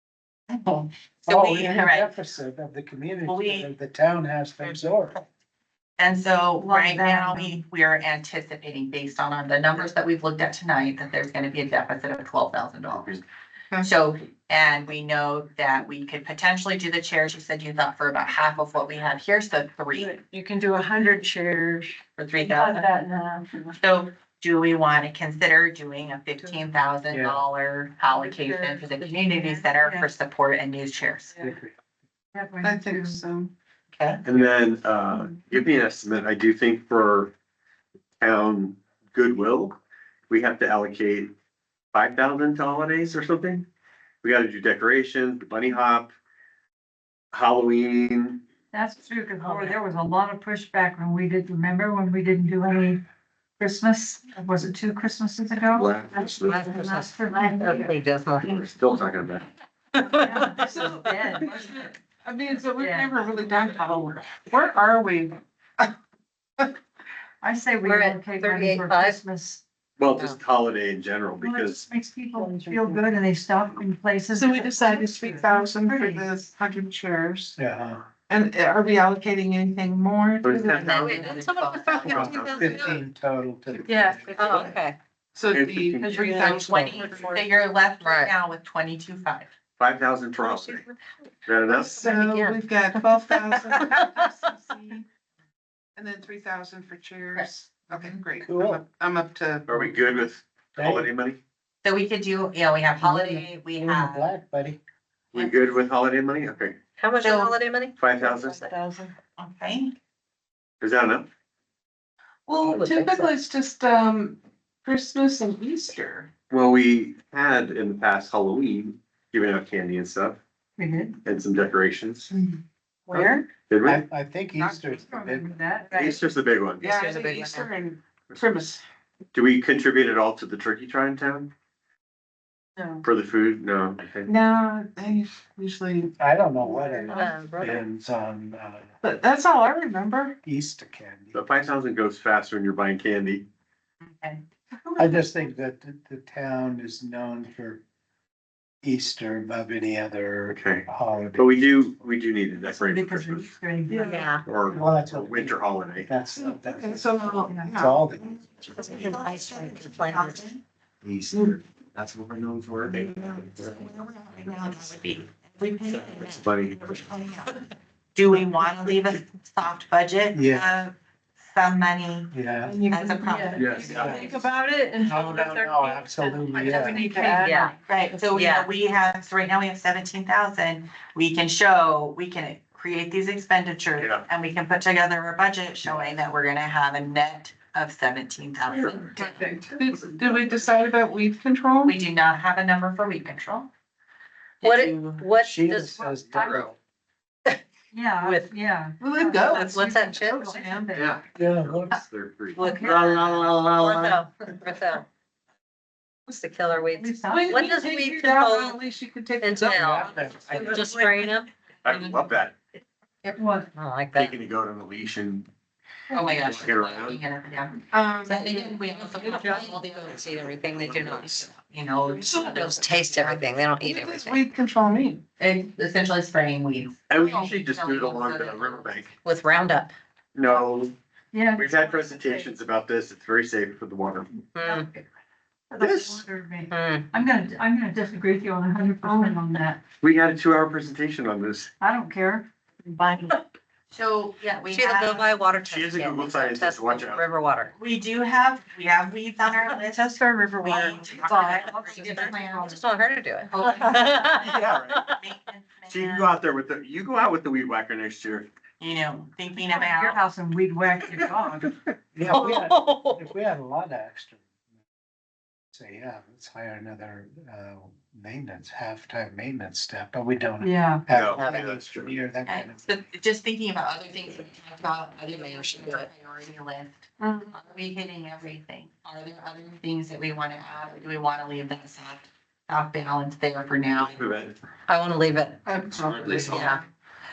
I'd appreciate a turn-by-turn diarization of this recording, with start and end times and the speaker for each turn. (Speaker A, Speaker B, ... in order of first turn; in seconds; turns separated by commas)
Speaker A: 0.5-2.2, Speaker B: 1.3-5.2, Speaker A: 3.3-3.7, Speaker A: 6.0-13.2, Speaker C: 6.6-7.6, Speaker D: 12.9-13.2, Speaker A: 13.8-20.2, Speaker C: 20.0-23.8, Speaker A: 22.2-22.9, Speaker A: 23.8-31.4, Speaker B: 27.1-27.4, Speaker C: 28.0-30.1, Speaker B: 31.4-31.8, Speaker C: 32.3-33.2, Speaker E: 32.6-33.5, Speaker A: 34.0-34.2, Speaker D: 34.2-37.3, Speaker D: 38.2-39.8, Speaker D: 40.3-41.3, Speaker D: 41.9-43.7, Speaker D: 44.2-46.1, Speaker D: 47.3-48.4, Speaker C: 48.7-53.0, Speaker F: 49.4-49.8, Speaker C: 53.6-57.9, Speaker D: 55.7-56.7, Speaker F: 56.4-58.7, Speaker D: 58.4-59.5, Speaker F: 59.9-61.2, Speaker C: 60.0-61.9, Speaker E: 60.6-65.9, Speaker C: 62.8-63.2, Speaker C: 67.4-69.6, Speaker F: 67.8-69.2, Speaker D: 70.0-71.8, Speaker F: 70.1-70.4, Speaker C: 71.4-76.3, Speaker E: 72.3-73.1, Speaker E: 74.3-77.6, Speaker B: 77.6-78.1, Speaker E: 78.3-81.4, Speaker D: 80.4-81.3, Speaker F: 80.7-83.0, Speaker A: 81.0-82.6, Speaker D: 82.0-82.7, Speaker E: 82.1-83.0, Speaker B: 82.2-84.6, Speaker C: 83.9-84.2, Speaker F: 84.3-85.0, Speaker A: 84.4-84.7, Speaker E: 85.3-87.3, Speaker D: 85.5-86.3, Speaker A: 86.1-89.5, Speaker F: 86.2-87.5, Speaker F: 88.0-88.3, Speaker D: 89.8-90.8, Speaker F: 90.4-90.9, Speaker D: 91.5-92.0, Speaker E: 91.8-95.0, Speaker F: 92.0-94.0, Speaker E: 96.0-100.1, Speaker A: 97.3-98.2, Speaker B: 98.5-98.8, Speaker D: 99.7-101.4, Speaker B: 100.8-101.1, Speaker A: 101.8-104.3, Speaker B: 103.0-104.8, Speaker D: 105.3-106.8, Speaker A: 105.3-105.7, Speaker F: 107.0-108.0, Speaker A: 107.2-107.5, Speaker D: 108.0-108.7, Speaker E: 108.2-109.1, Speaker A: 109.2-110.0, Speaker D: 110.8-111.3, Speaker E: 112.5-116.3, Speaker F: 112.5-113.3, Speaker D: 116.5-120.4, Speaker C: 120.8-121.2, Speaker D: 121.2-122.3, Speaker E: 122.3-122.6, Speaker C: 123.1-123.5, Speaker E: 123.1-123.5, Speaker D: 123.6-124.0, Speaker B: 123.8-125.5, Speaker E: 124.6-125.0, Speaker C: 125.1-126.2, Speaker D: 125.9-126.9, Speaker F: 126.8-127.7, Speaker E: 126.8-128.8, Speaker D: 129.3-131.5, Speaker C: 132.8-133.0, Speaker D: 133.0-134.3, Speaker E: 134.3-137.3, Speaker B: 136.2-138.9, Speaker F: 137.1-137.8, Speaker E: 139.0-140.4, Speaker B: 140.4-141.4, Speaker D: 141.3-143.5, Speaker A: 144.0-145.3, Speaker B: 145.0-147.8, Speaker B: 148.8-152.0, Speaker D: 150.5-153.6, Speaker C: 152.7-154.2, Speaker E: 153.9-154.3, Speaker F: 154.0-154.4, Speaker D: 154.4-156.1, Speaker B: 154.7-158.3, Speaker E: 156.4-158.1, Speaker A: 158.7-160.6, Speaker F: 158.8-160.4, Speaker D: 161.0-163.7, Speaker E: 161.3-161.6, Speaker A: 163.5-172.3, Speaker D: 166.2-166.8, Speaker B: 170.3-170.7, Speaker B: 172.3-172.8, Speaker E: 172.7-174.5, Speaker A: 172.9-174.5, Speaker C: 173.3-173.7, Speaker D: 173.6-174.2, Speaker B: 173.9-174.4, Speaker C: 174.2-177.7, Speaker E: 175.0-176.0, Speaker B: 175.0-177.3, Speaker E: 176.7-177.7, Speaker F: 177.3-177.7, Speaker A: 177.9-189.4, Speaker F: 178.3-178.7, Speaker D: 184.0-184.2, Speaker B: 185.8-186.1, Speaker E: 188.7-192.0, Speaker A: 191.8-193.7, Speaker A: 194.6-195.2, Speaker F: 194.6-196.7, Speaker B: 195.4-196.8, Speaker C: 196.3-196.6, Speaker C: 197.9-201.2, Speaker F: 198.2-198.5, Speaker E: 199.0-201.0, Speaker F: 199.5-200.6, Speaker D: 200.9-204.2, Speaker B: 201.3-202.0, Speaker C: 202.6-203.5, Speaker F: 202.6-205.1, Speaker F: 206.3-208.8, Speaker C: 207.0-207.8, Speaker E: 207.2-210.1, Speaker F: 209.4-211.5, Speaker B: 209.6-210.7, Speaker A: 210.5-212.3, Speaker D: 211.8-212.6, Speaker C: 213.3-213.7, Speaker F: 213.8-214.4, Speaker D: 214.1-215.5, Speaker C: 216.1-216.4, Speaker A: 216.1-223.4, Speaker D: 216.4-217.2, Speaker E: 217.9-218.8, Speaker F: 219.0-221.5, Speaker E: 222.1-222.7, Speaker F: 222.4-224.4, Speaker E: 223.8-225.2, Speaker A: 225.4-229.1, Speaker D: 227.1-229.1, Speaker F: 229.2-229.9, Speaker D: 230.3-230.9, Speaker C: 231.3-232.6, Speaker D: 231.6-234.4, Speaker F: 234.6-234.9, Speaker C: 234.6-235.0, Speaker C: 235.7-239.8, Speaker D: 235.8-236.2, Speaker F: 236.7-237.1, Speaker E: 239.0-239.6, Speaker D: 240.0-241.7, Speaker C: 241.8-243.3, Speaker A: 243.9-245.5, Speaker F: 244.7-247.7, Speaker D: 245.6-247.2, Speaker A: 247.8-252.8, Speaker E: 249.7-251.7, Speaker F: 251.3-255.1, Speaker C: 251.6-252.8, Speaker A: 253.4-256.4, Speaker D: 254.4-255.0, Speaker D: 255.9-258.5, Speaker A: 258.8-260.2, Speaker C: 259.6-261.8, Speaker B: 262.1-264.5, Speaker F: 262.2-263.3, Speaker B: 265.7-272.9, Speaker C: 270.6-271.1, Speaker D: 271.1-272.1, Speaker F: 271.3-271.7, Speaker A: 272.4-284.2, Speaker F: 275.3-276.1, Speaker D: 284.0-284.6, Speaker F: 284.9-285.7, Speaker E: 285.7-286.8, Speaker D: 286.0-286.8, Speaker F: 286.5-286.8